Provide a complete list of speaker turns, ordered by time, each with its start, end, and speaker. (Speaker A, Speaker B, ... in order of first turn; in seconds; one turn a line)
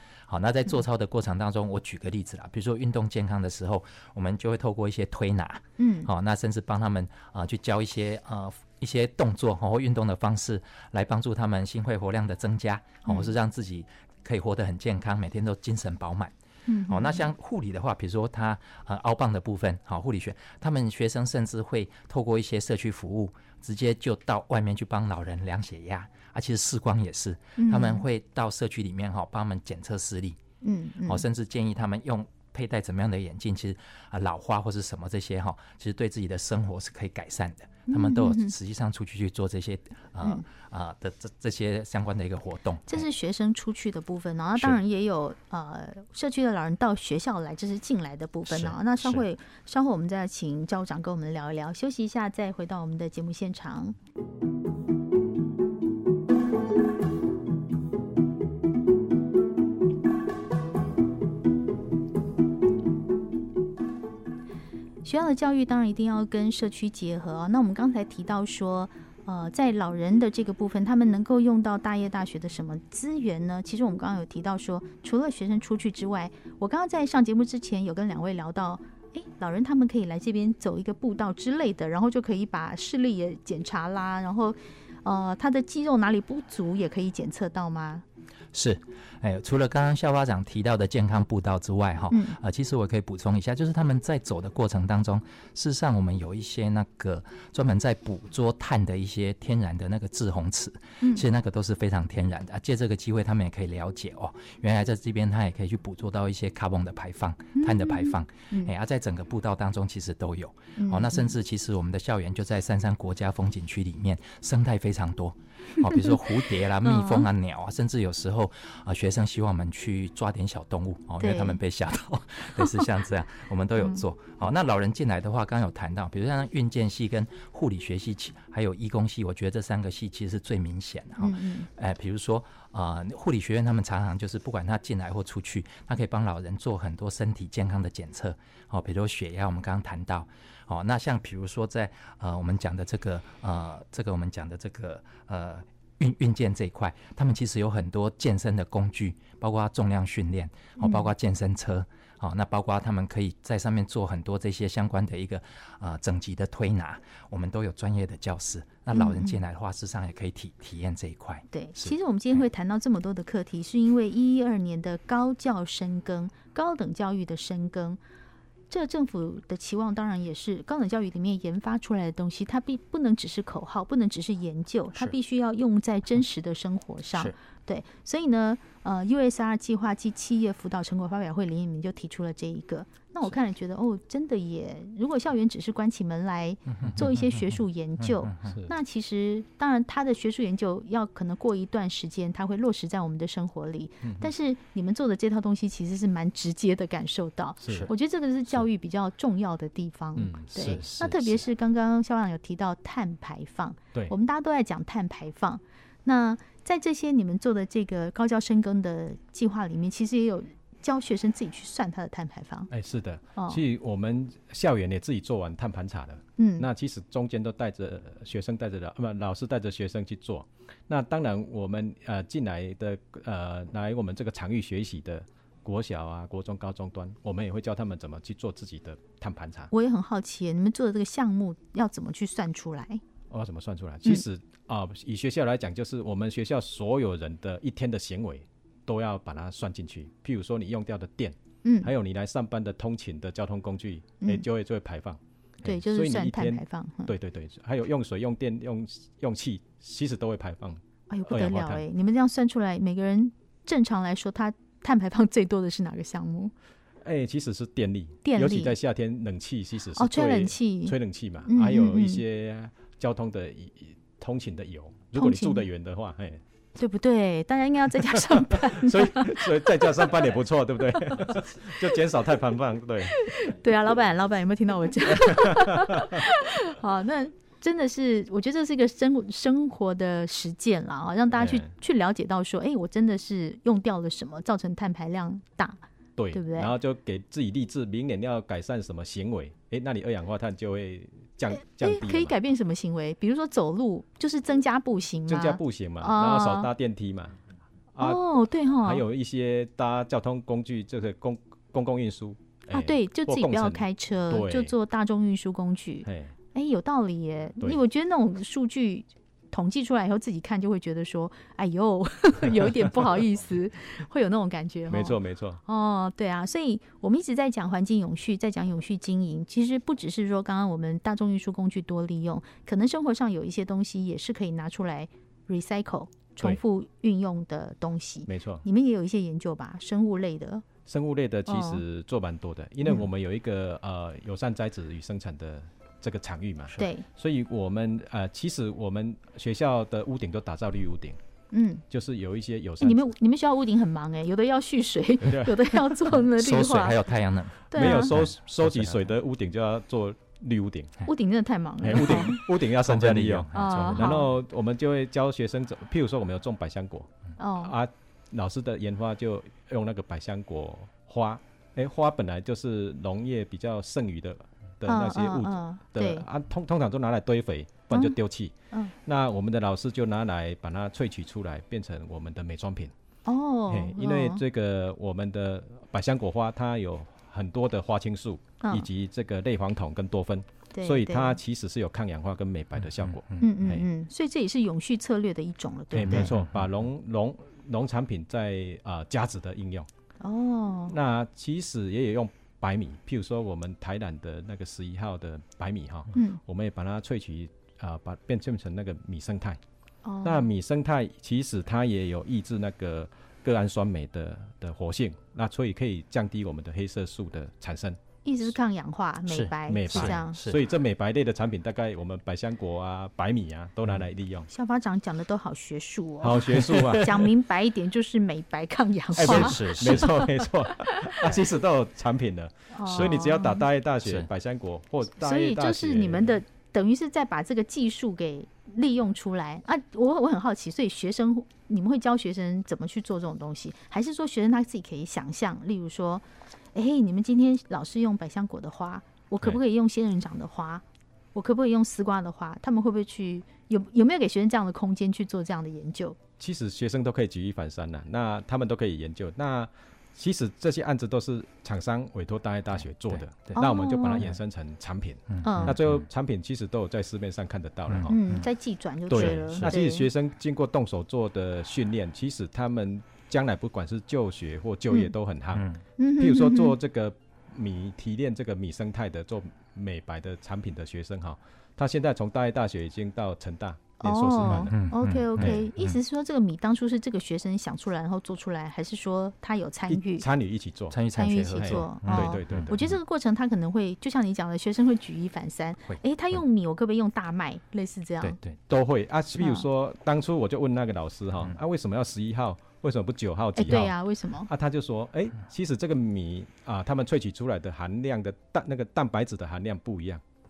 Speaker A: 0.3-16.3
Speaker B: 5.8-6.1
Speaker B: 13.1-13.3
Speaker B: 16.7-17.3
Speaker A: 16.9-30.4
Speaker B: 27.6-28.1
Speaker B: 30.6-31.2
Speaker A: 31.0-43.0
Speaker B: 37.9-38.5
Speaker B: 40.2-40.5
Speaker B: 42.9-54.0
Speaker A: 48.5-49.2
Speaker B: 65.0-88.0
Speaker A: 88.5-162.0
Speaker B: 92.1-92.4
Speaker B: 101.0-101.2
Speaker B: 107.5-108.7
Speaker B: 110.8-111.3
Speaker B: 115.8-116.2
Speaker B: 116.8-117.3
Speaker B: 121.2-121.6
Speaker B: 131.2-131.7
Speaker B: 150.8-151.1
Speaker B: 158.9-159.4
Speaker B: 161.5-168.0
Speaker B: 168.7-212.7
Speaker A: 186.8-188.5
Speaker C: 188.5-188.7
Speaker C: 194.0-194.3
Speaker C: 197.6-197.9
Speaker A: 197.6-197.9
Speaker C: 200.2-201.4
Speaker A: 200.6-201.3
Speaker C: 212.7-229.7
Speaker B: 213.4-213.6
Speaker B: 216.4-216.7
Speaker B: 229.7-233.0
Speaker C: 233.3-251.8
Speaker B: 241.6-241.9
Speaker B: 245.6-247.1
Speaker B: 251.1-256.5
Speaker C: 257.0-266.4
Speaker B: 258.2-258.8
Speaker B: 259.9-262.2
Speaker B: 265.1-265.7
Speaker B: 266.8-270.1
Speaker C: 268.6-273.2
Speaker B: 270.9-271.3
Speaker B: 273.1-286.7
Speaker C: 275.1-275.6
Speaker C: 281.4-281.7
Speaker C: 286.2-292.3
Speaker B: 291.6-296.7
Speaker C: 295.3-297.4
Speaker C: 297.9-304.7
Speaker B: 298.0-299.0
Speaker B: 302.7-330.6
Speaker C: 306.0-306.3
Speaker C: 314.9-315.6
Speaker C: 328.3-328.6
Speaker C: 330.9-341.2
Speaker B: 331.5-331.8
Speaker B: 336.8-337.1
Speaker B: 341.5-341.8
Speaker C: 341.9-343.1
Speaker B: 342.8-347.0
Speaker C: 345.2-346.2
Speaker A: 346.4-349.1
Speaker B: 347.7-348.2
Speaker C: 347.8-351.0
Speaker B: 351.0-352.4
Speaker C: 351.8-368.5
Speaker A: 352.0-354.2
Speaker B: 353.5-354.3
Speaker B: 357.4-357.7
Speaker B: 364.9-366.2
Speaker C: 369.0-372.9
Speaker B: 373.2-374.4
Speaker C: 373.7-383.9
Speaker B: 378.6-378.9
Speaker B: 380.7-381.4
Speaker A: 382.8-383.5
Speaker B: 383.4-386.3
Speaker C: 385.9-389.9
Speaker A: 386.0-386.5
Speaker B: 390.2-390.9
Speaker C: 390.9-399.6
Speaker B: 396.1-396.4
Speaker B: 400.0-400.5
Speaker C: 400.2-408.0
Speaker B: 408.2-410.4
Speaker A: 409.3-410.6
Speaker C: 409.7-414.5
Speaker B: 414.5-421.2
Speaker C: 416.2-417.3
Speaker A: 419.1-420.2
Speaker C: 419.2-426.4
Speaker B: 422.7-423.6
Speaker A: 422.9-423.2
Speaker A: 424.0-424.3
Speaker B: 425.2-446.2
Speaker C: 446.4-458.2
Speaker A: 452.8-453.5
Speaker B: 453.5-454.3
Speaker A: 455.3-456.1
Speaker B: 455.4-455.8
Speaker A: 457.9-458.4
Speaker B: 458.1-460.1
Speaker C: 459.1-465.6
Speaker A: 459.1-459.7
Speaker A: 465.5-465.8
Speaker B: 466.0-466.8
Speaker C: 466.2-474.7
Speaker B: 474.0-480.2
Speaker A: 474.5-476.0
Speaker C: 475.4-475.7
Speaker C: 479.9-481.0
Speaker A: 480.9-483.0
Speaker B: 481.1-488.4
Speaker C: 481.6-482.8
Speaker A: 488.2-488.6
Speaker C: 488.7-494.0
Speaker B: 489.4-489.7
Speaker B: 493.6-494.5
Speaker C: 494.5-500.2